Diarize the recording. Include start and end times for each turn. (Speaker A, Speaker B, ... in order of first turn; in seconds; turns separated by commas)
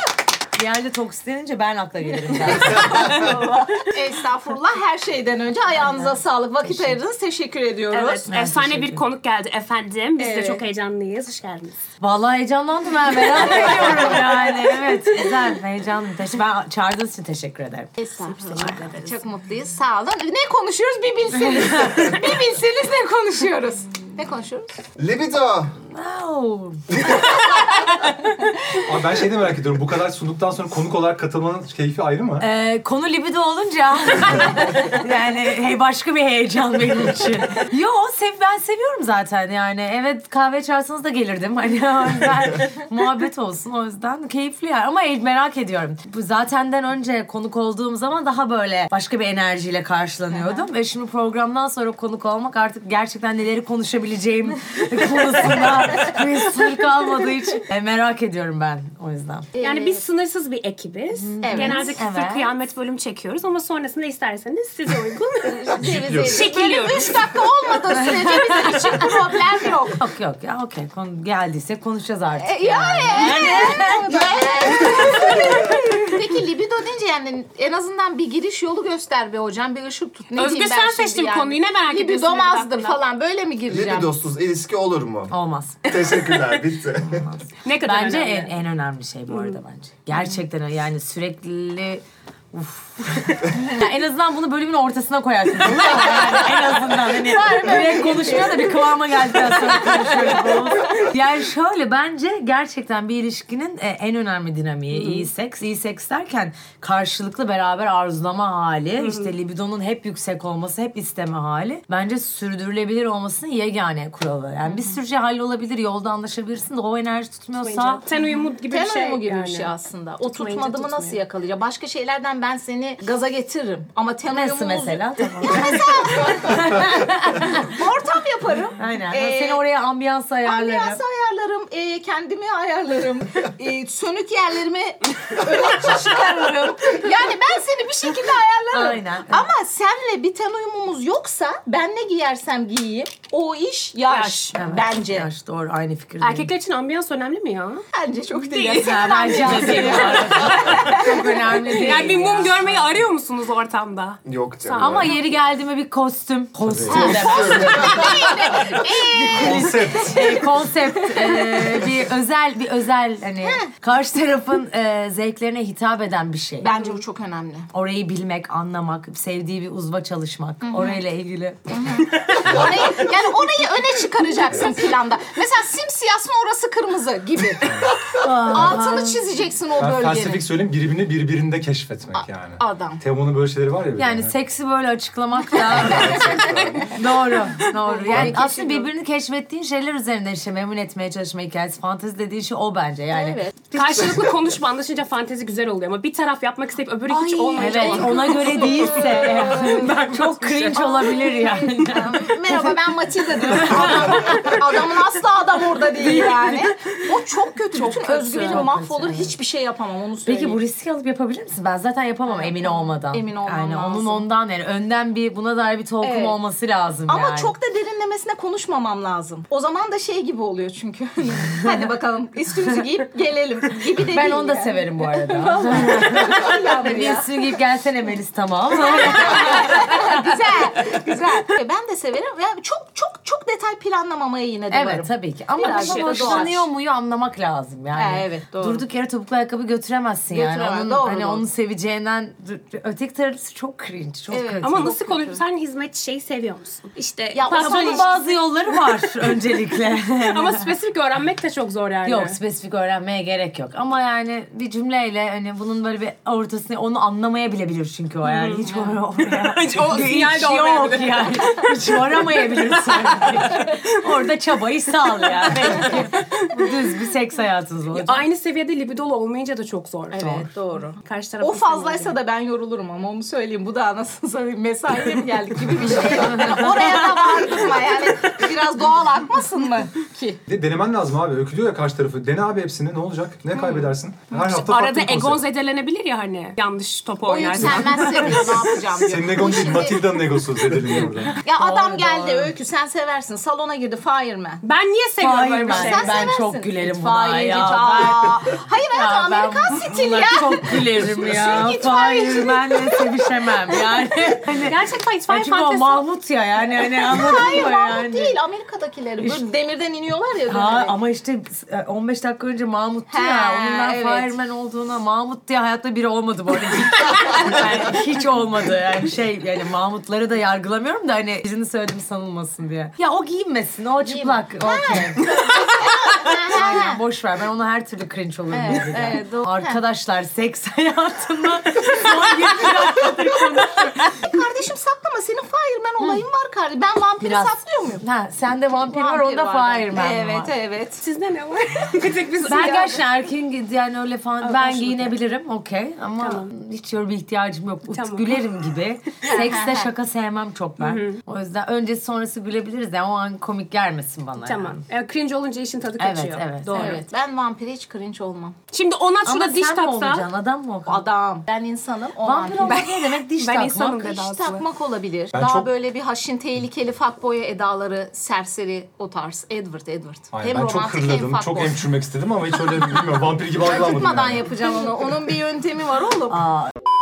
Speaker A: 0.5-3.3, Speaker B: 2.6-8.3, Speaker A: 5.8-7.0, Speaker C: 7.9-11.8, Speaker A: 8.3-9.1, Speaker B: 10.2-10.6, Speaker A: 12.0-18.9, Speaker B: 13.4-14.6, Speaker C: 13.6-14.0, Speaker B: 18.0-24.8, Speaker C: 18.1-19.2, Speaker A: 21.3-22.2, Speaker D: 25.0-25.8, Speaker A: 25.9-27.1, Speaker A: 27.9-28.4, Speaker E: 28.7-32.5, Speaker A: 32.4-59.5, Speaker B: 50.3-50.6, Speaker B: 59.5-60.0, Speaker C: 59.6-67.2, Speaker A: 61.1-62.5, Speaker B: 61.4-62.0, Speaker B: 65.4-70.0, Speaker E: 65.8-66.5, Speaker A: 68.0-69.1, Speaker A: 70.0-75.8, Speaker B: 72.4-84.2, Speaker C: 80.3-83.0, Speaker D: 83.7-85.3, Speaker A: 85.3-85.9, Speaker D: 85.8-87.2, Speaker A: 87.0-118.0, Speaker C: 87.6-88.5, Speaker C: 89.3-89.6, Speaker B: 97.1-98.8, Speaker B: 99.9-100.5, Speaker C: 104.9-105.3, Speaker C: 109.0-109.3, Speaker C: 114.7-115.0, Speaker C: 117.6-119.7, Speaker B: 118.7-129.6, Speaker C: 120.3-121.2, Speaker A: 124.3-127.8, Speaker A: 128.8-131.0, Speaker B: 130.4-145.3, Speaker A: 138.7-139.5, Speaker C: 144.1-144.5, Speaker A: 144.5-146.5, Speaker C: 146.2-147.8, Speaker B: 147.9-151.2, Speaker C: 148.4-155.3, Speaker A: 148.8-153.0, Speaker D: 154.2-155.1, Speaker A: 154.8-166.9, Speaker E: 156.6-157.3, Speaker B: 156.9-159.9, Speaker D: 156.9-158.4, Speaker C: 157.4-158.1, Speaker E: 159.2-160.5, Speaker B: 161.1-161.8, Speaker B: 163.4-163.7, Speaker B: 166.6-167.7, Speaker A: 167.7-171.9, Speaker B: 170.6-171.0, Speaker B: 171.7-180.5, Speaker E: 177.6-178.0, Speaker A: 178.2-179.2, Speaker E: 179.8-184.3, Speaker B: 182.2-183.0, Speaker A: 184.0-193.4, Speaker E: 185.7-186.9, Speaker B: 185.8-186.8, Speaker B: 187.6-188.9, Speaker E: 188.1-188.4, Speaker B: 193.1-193.7, Speaker C: 193.7-201.1, Speaker B: 197.1-200.0, Speaker A: 197.6-202.8, Speaker B: 200.7-210.6, Speaker A: 203.4-204.6, Speaker A: 206.0-206.7, Speaker A: 207.7-209.4, Speaker C: 208.3-208.6, Speaker A: 210.2-217.5, Speaker B: 212.3-214.3, Speaker B: 216.0-216.4, Speaker B: 217.1-227.5, Speaker A: 221.6-221.9, Speaker A: 224.0-230.4, Speaker B: 228.7-236.7, Speaker A: 234.7-245.0, Speaker C: 235.6-236.5, Speaker B: 237.9-238.8, Speaker B: 240.3-241.4, Speaker B: 244.3-245.4, Speaker C: 244.6-248.8, Speaker B: 247.2-248.3, Speaker A: 247.5-250.7, Speaker C: 250.2-252.4, Speaker A: 252.1-268.3, Speaker C: 258.2-258.7, Speaker B: 258.6-259.0, Speaker C: 259.3-264.0, Speaker C: 265.2-266.8, Speaker C: 267.9-270.2, Speaker B: 270.1-280.4, Speaker A: 270.2-270.5, Speaker C: 271.0-272.2, Speaker A: 276.2-277.2, Speaker E: 280.5-285.4, Speaker B: 283.6-283.9, Speaker C: 284.3-288.4, Speaker B: 287.3-290.4, Speaker E: 288.9-291.4, Speaker B: 291.4-294.6, Speaker A: 291.6-292.5, Speaker C: 294.6-296.2, Speaker A: 295.2-298.4, Speaker B: 295.6-303.3, Speaker A: 298.9-308.4, Speaker C: 304.6-306.0, Speaker B: 307.0-310.9, Speaker A: 310.5-325.3, Speaker B: 313.1-314.4, Speaker B: 324.0-327.0, Speaker A: 326.5-334.4, Speaker B: 328.5-329.8, Speaker B: 332.6-338.0, Speaker A: 337.2-340.5, Speaker B: 338.7-341.0, Speaker C: 341.0-343.0, Speaker A: 342.5-354.8, Speaker C: 344.4-345.2, Speaker C: 346.2-346.5, Speaker C: 347.9-348.4, Speaker B: 349.2-349.9, Speaker C: 350.8-351.2, Speaker C: 354.4-357.0, Speaker A: 356.0-357.0, Speaker B: 356.7-358.6, Speaker C: 358.7-360.3, Speaker A: 359.2-361.1, Speaker B: 360.9-363.1, Speaker A: 362.2-364.1, Speaker C: 363.4-364.6, Speaker B: 364.1-371.8, Speaker E: 365.3-365.7, Speaker E: 370.3-374.5, Speaker B: 373.6-376.4, Speaker A: 376.3-376.8